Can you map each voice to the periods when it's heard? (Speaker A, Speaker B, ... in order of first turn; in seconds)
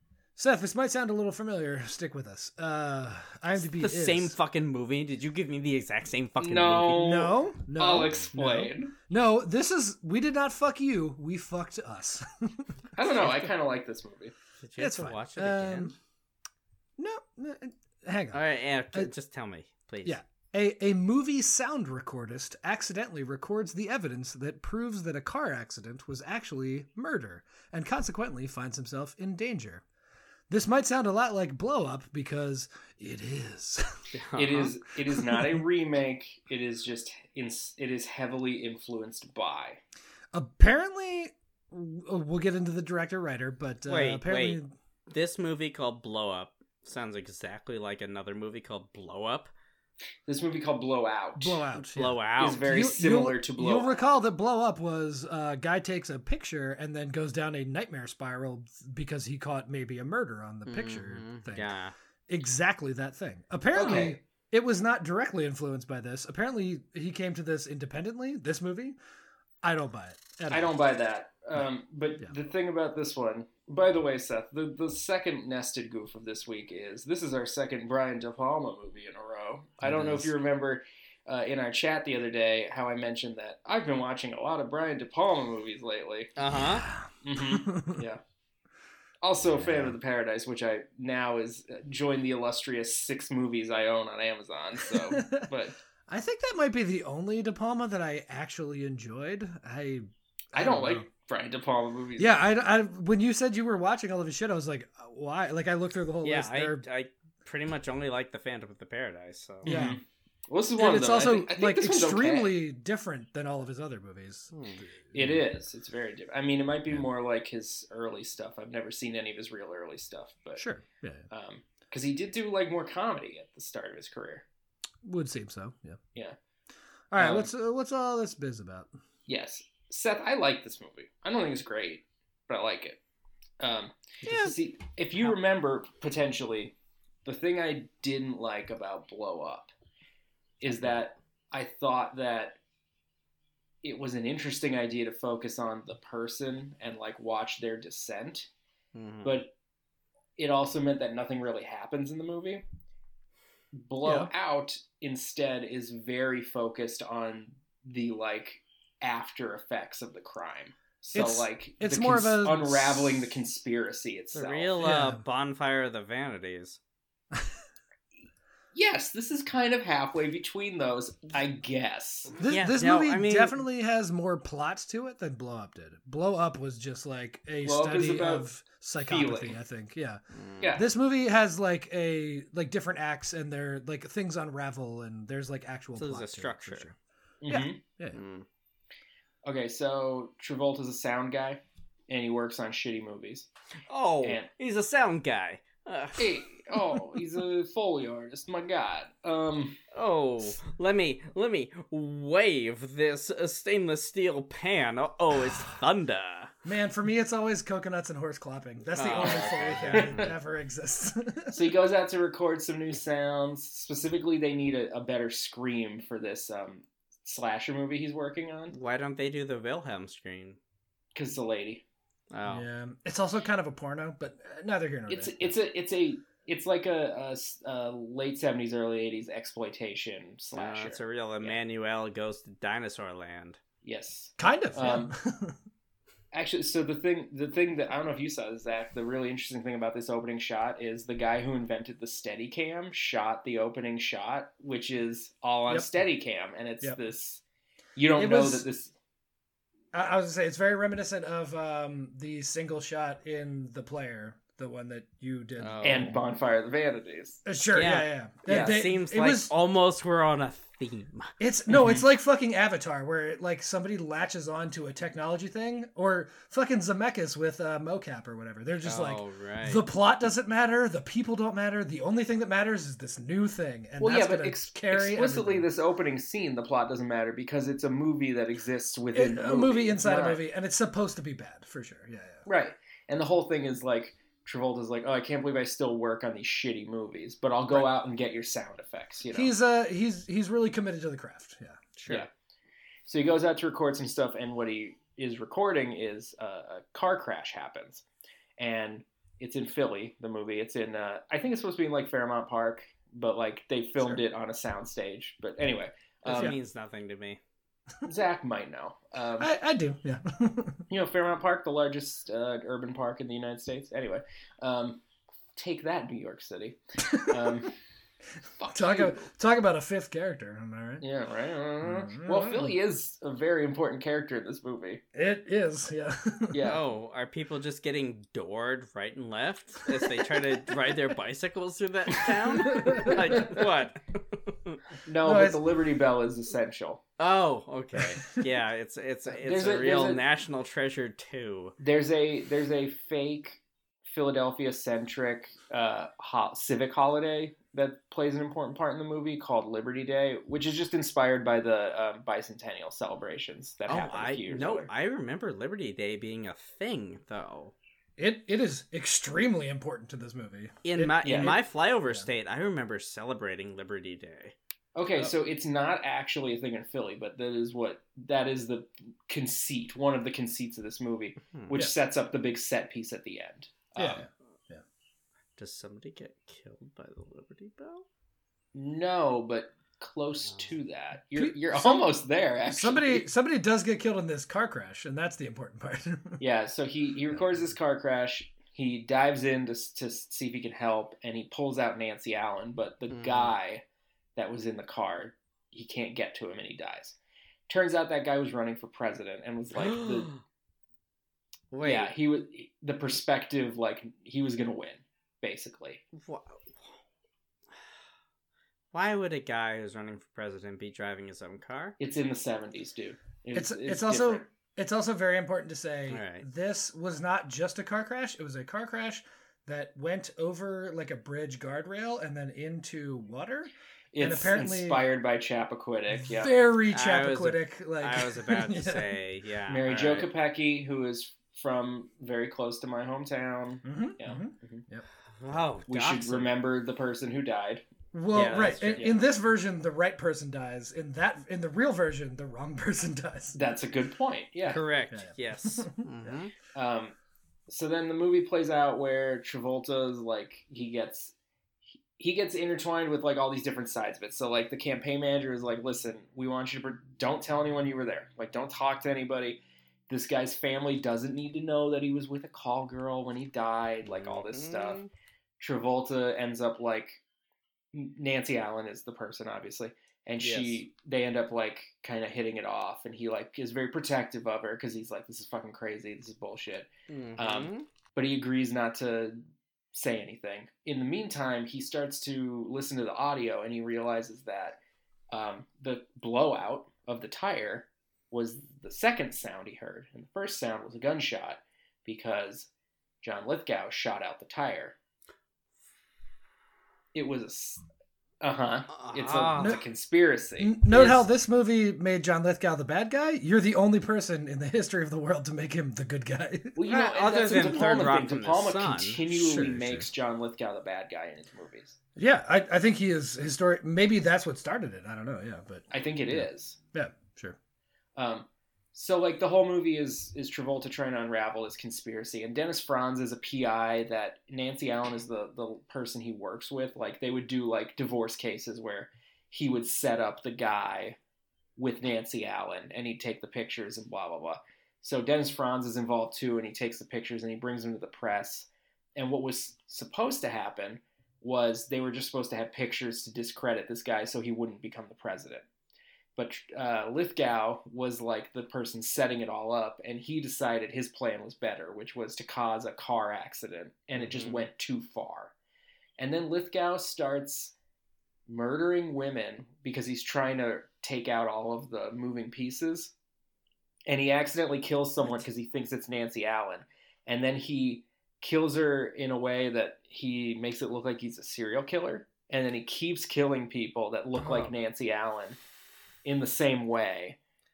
Speaker A: 0.4-4.3, 6.9-13.5, 14.8-15.9, 17.0-18.4, 20.1-29.8, 30.5-33.9, 35.1-35.6, 40.3-44.7, 51.4-61.7, 62.3-69.0, 69.6-70.7, 79.8-80.3, 86.6-88.0, 89.6-90.0, 94.9-95.5, 96.1-101.0, 102.2-106.8, 109.6-110.0, 110.8-115.4, 120.6-121.3, 125.0-126.0, 127.1-128.9, 134.3-134.5, 154.0-154.3, 161.1-163.2, 164.8-165.2, 172.4-180.2, 180.7-186.9, 187.5-188.2, 206.6-211.7, 222.4-225.6, 234.4-235.6, 248.2-248.6, 249.9-256.2, 257.4-259.5, 261.4-275.7, 279.1-282.4, 289.3-291.8, 309.4-310.8, 317.0-317.6, 318.7-321.0, 321.8-322.8, 325.1-326.6, 332.7-333.6, 335.2-335.6, 337.9-338.2, 358.2-361.2, 373.9-374.8, 381.4-382.1, 382.7-386.4, 413.5-425.0, 426.1-429.1, 433.9-435.1, 438.1-443.6, 445.1-446.3, 500.6-506.9, 509.3-510.1, 512.2-517.6, 574.4-574.7
Speaker B: 3.5-7.1, 14.6-15.9, 18.3-20.2, 34.1-34.7, 43.9-49.5, 51.9-52.7, 60.7-61.9, 86.4-86.9, 106.2-109.7, 114.5-114.8, 148.9-149.4, 164.3-166.8, 172.4-173.6, 180.3-180.8, 185.9-186.9, 188.1-188.4, 193.9-196.8, 199.9-206.5, 208.9-210.3, 218.7-220.6, 222.3-222.7, 230.5-233.6, 255.6-256.2, 257.8-261.3, 268.8-269.8, 292.0-292.3, 306.3-307.4, 326.6-334.8, 337.2-341.8, 353.9-357.8, 360.9-364.5, 375.6-378.1, 393.1-393.6, 399.8-400.4, 401.7-402.1, 406.2-406.9, 408.9-412.0, 416.1-416.4, 426.9-430.3, 435.4-436.5, 438.3-439.1, 444.6-446.5, 464.1-465.1, 470.4-470.8, 477.1-477.9, 498.9-499.8, 506.9-509.2, 554.2-554.6
Speaker C: 6.4-8.9, 12.9-14.3, 34.4-39.8, 50.3-51.6, 52.4-53.9, 63.7-64.2, 70.5-86.3, 87.2-88.2, 89.2-95.8, 100.5-102.4, 109.6-112.5, 115.1-120.6, 121.3-124.5, 127.2-127.5, 129.3-133.0, 133.6-136.7, 137.2-139.7, 140.6-142.6, 143.8-148.5, 149.2-149.5, 150.4-152.6, 153.7-164.8, 168.7-172.3, 177.6-178.5, 179.0-179.6, 180.6-180.9, 187.4-187.8, 189.4-193.5, 194.2-194.5, 196.2-199.8, 209.1-210.2, 211.5-218.7, 221.1-221.8, 225.1-231.6, 233.8-235.1, 236.3-247.4, 247.9-248.9, 255.8-257.4, 258.5-258.8, 261.7-262.0, 274.0-280.4, 282.4-289.5, 293.1-298.0, 298.6-306.5, 308.1-309.5, 310.9-315.0, 315.6-317.8, 318.6-319.3, 321.0-325.0, 326.5-326.8, 332.9-333.5, 335.1-337.0, 339.3-340.2, 341.8-354.9, 361.2-361.6, 364.9-374.2, 378.7-383.2, 386.4-393.8, 394.4-397.2, 397.7-400.3, 401.8-406.0, 412.0-414.5, 424.1-426.6, 429.7-434.9, 435.9-437.9, 438.6-439.2, 443.6-444.8, 446.8-447.1, 447.7-451.3, 452.2-465.0, 465.6-467.2, 467.9-479.4, 479.9-484.8, 485.3-492.7, 493.2-494.9, 497.1-497.8, 498.4-501.2, 506.8-511.9, 515.9-516.8, 518.2-531.2, 531.8-545.6, 546.4-555.5, 556.2-557.8, 558.5-563.1, 564.1-575.6, 576.2-577.4